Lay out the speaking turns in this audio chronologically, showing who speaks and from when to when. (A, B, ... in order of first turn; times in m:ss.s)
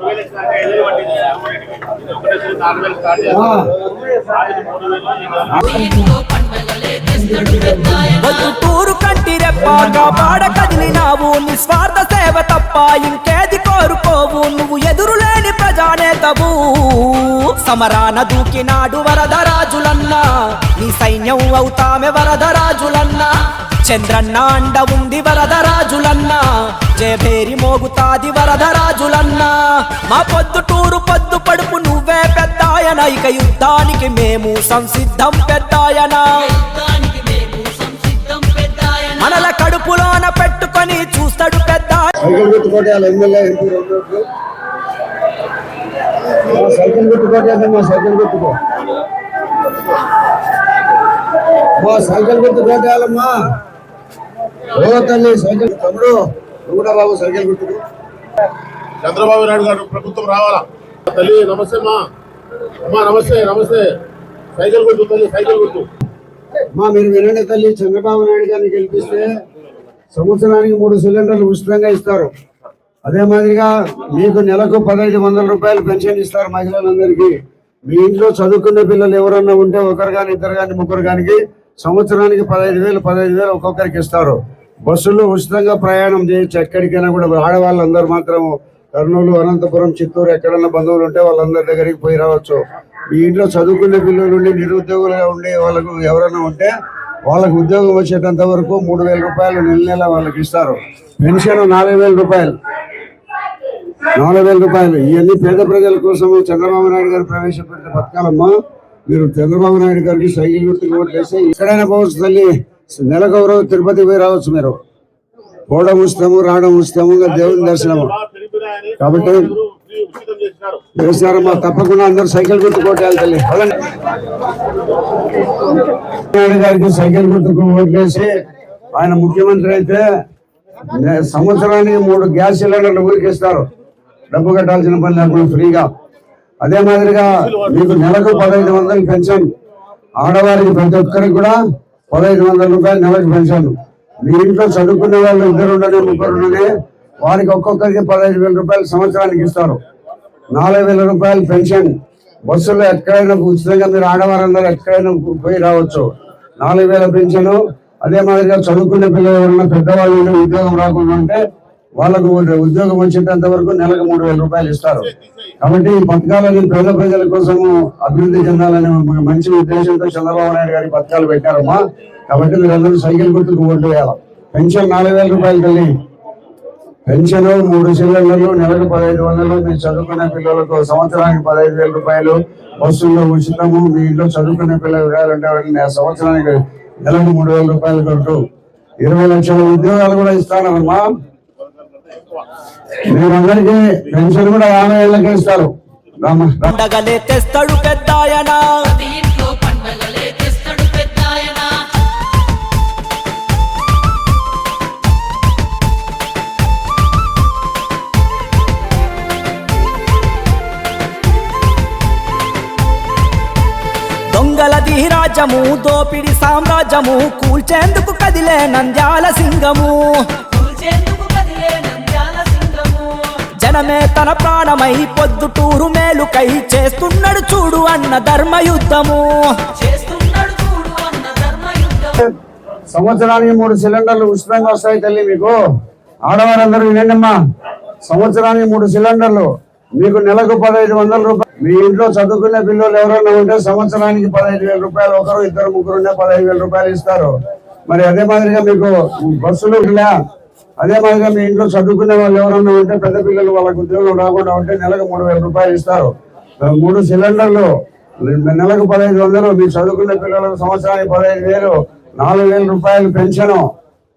0:00.1-0:03.4 A
0:03.2-0:03.8 B
0:04.2-0:05.5 A
0:05.5-0:05.9 B
0:05.6-0:08.2 C
0:07.2-0:08.1 B
0:08.0-0:36.5 D
0:36.5-0:39.2 C
0:39.2-0:42.1 D
0:42.2-0:44.2 B
0:46.3-0:48.5 B
0:51.8-0:53.3 B
0:54.7-0:57.8 B
0:59.0-1:02.1 A
1:02.7-1:04.0 A
1:04.5-1:05.9 A
1:06.7-1:09.3 B
1:10.1-1:12.3 B
1:13.0-1:17.3 B
1:17.9-1:36.7 B
1:37.2-1:42.5 B
1:44.2-1:48.5 B
1:49.1-1:54.8 B
1:55.7-1:58.1 B
1:57.4-2:00.8 A
1:59.0-1:59.5 B
2:00.9-2:03.9 B
2:06.1-2:08.3 B
2:08.9-2:10.0 B
2:10.9-2:13.6 B
2:14.3-2:15.9 B
2:16.6-2:19.5 B
2:20.2-2:21.6 B
2:22.1-2:26.7 B
2:27.2-2:29.8 B
2:30.5-2:31.9 B
2:32.5-2:36.1 B
2:36.6-2:41.4 B
2:42.0-2:45.1 B
2:45.6-2:55.9 B
2:57.1-3:08.4 B
3:09.0-3:11.1 B
3:13.0-3:15.7 B
3:16.2-3:16.7 B
3:16.6-3:18.9 D
3:18.9-3:21.9 C
3:34.3-3:40.4 D
3:40.5-3:43.3 C
3:43.6-3:49.7 D
3:49.7-3:52.3 C
3:52.9-3:55.6 B
3:56.3-3:57.4 B
3:58.0-4:07.3 B
4:07.9-4:10.1 B
4:10.8-4:17.7 B
4:18.2-4:23.7 B